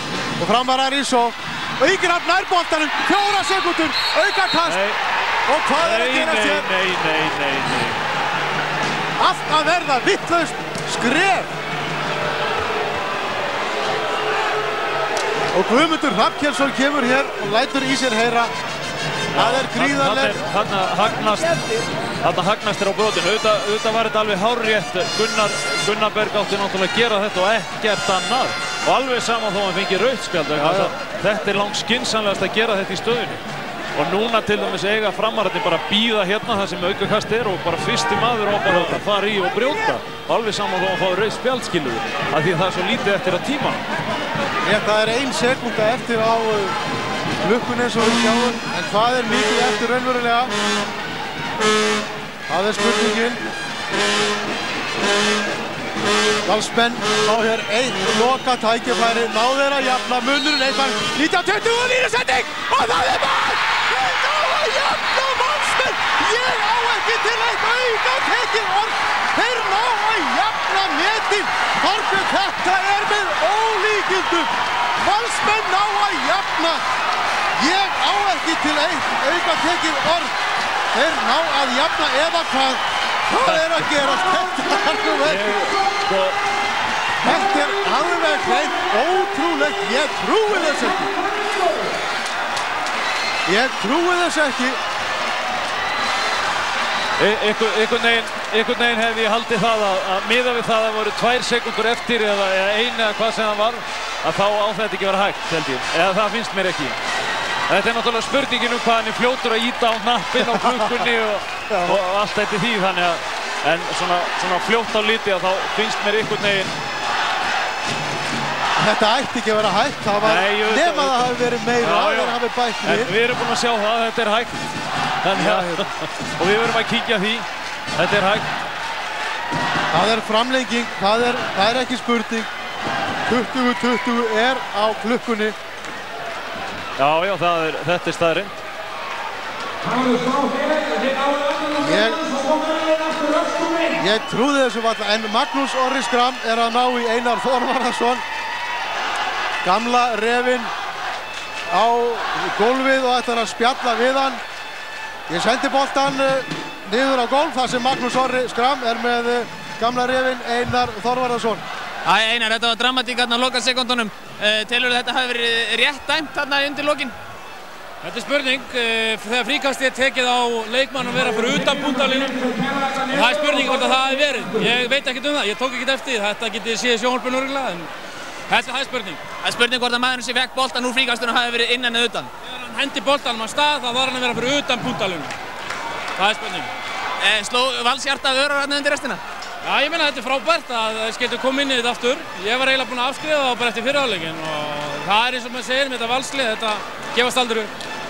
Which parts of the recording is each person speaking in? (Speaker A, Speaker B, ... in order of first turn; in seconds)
Speaker A: 0.4-4.8, 5.5-6.7, 9.2-11.5, 15.5-18.5, 19.3-20.4, 30.5-30.9, 38.7-39.0, 44.6-46.8, 47.4-50.5, 52.5-53.5, 56.4-76.8, 77.6-80.3, 80.9-85.6, 87.2-91.1, 93.5-94.8, 110.4-111.0, 111.7-112.0, 118.8-123.1, 125.3-125.9, 129.9-132.5, 133.3-135.6, 141.7-142.2, 144.0-148.2, 149.6-150.7, 151.7-154.4, 155.3-161.6
Speaker B: 4.6-5.0, 5.8-8.0, 19.3-33.4, 33.9-43.8, 83.4-83.8, 85.2-86.4, 97.2-107.0, 107.7-116.8, 120.2-124.6, 125.2-128.5, 137.0-138.6
Speaker C: 162.0-167.1, 179.4-182.3, 187.2-189.2
Speaker D: 168.0-177.9, 178.5-179.2, 182.4-185.3, 186.2-186.7, 189.6-197.7